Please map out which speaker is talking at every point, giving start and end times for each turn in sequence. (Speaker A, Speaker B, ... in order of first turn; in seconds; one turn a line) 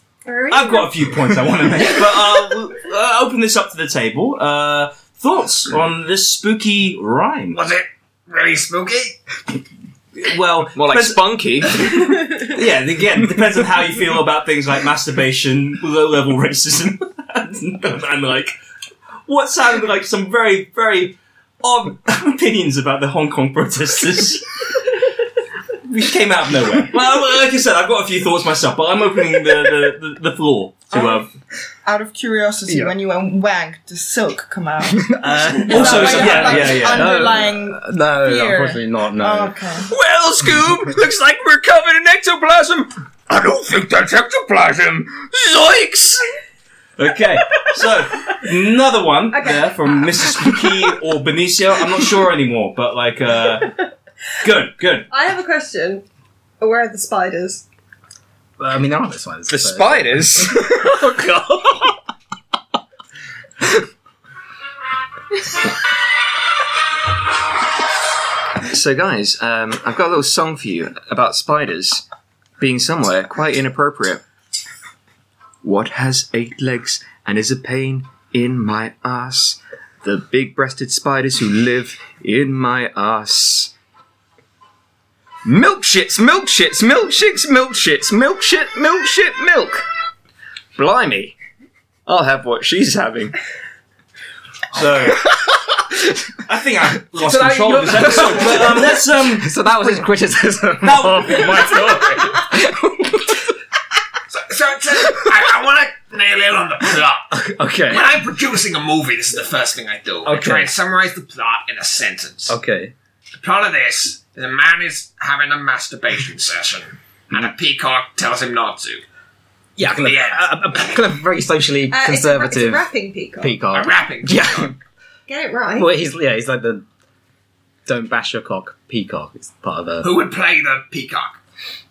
Speaker A: 0.2-1.0
Speaker B: 0.5-7.6
Speaker C: 7.5-9.2
Speaker B: 10.2-18.6
Speaker D: 10.7-11.8
Speaker B: 19.3-24.8
Speaker B: 25.8-31.3
Speaker E: 30.9-31.2
Speaker E: 31.8-39.9
Speaker F: 32.7-33.0
Speaker F: 34.9-39.6
Speaker B: 35.2-37.2
Speaker A: 35.9-36.4
Speaker G: 39.9-46.2
Speaker B: 47.0-53.8
Speaker A: 49.3-50.8
Speaker B: 54.4-55.1
Speaker A: 55.1-56.0
Speaker A: 56.6-57.6
Speaker F: 58.6-61.9
Speaker D: 59.6-60.4
Speaker G: 59.8-60.4
Speaker D: 68.7-72.0
Speaker D: 72.6-74.2
Speaker D: 75.6-83.7
Speaker D: 85.4-89.8
Speaker D: 90.8-91.3
Speaker D: 92.0-93.3
Speaker B: 94.7-95.2
Speaker B: 96.4-99.6
Speaker F: 97.2-103.4
Speaker B: 100.8-101.9
Speaker C: 104.3-107.3
Speaker F: 107.3-108.1
Speaker C: 107.9-112.5
Speaker F: 110.2-110.7
Speaker F: 112.5-112.9
Speaker C: 113.4-119.0
Speaker F: 119.8-122.8
Speaker C: 119.9-121.0
Speaker A: 121.9-123.6
Speaker F: 123.4-124.7
Speaker C: 123.7-124.7
Speaker A: 125.3-125.9
Speaker F: 125.8-126.8
Speaker F: 127.8-130.1
Speaker C: 130.0-131.4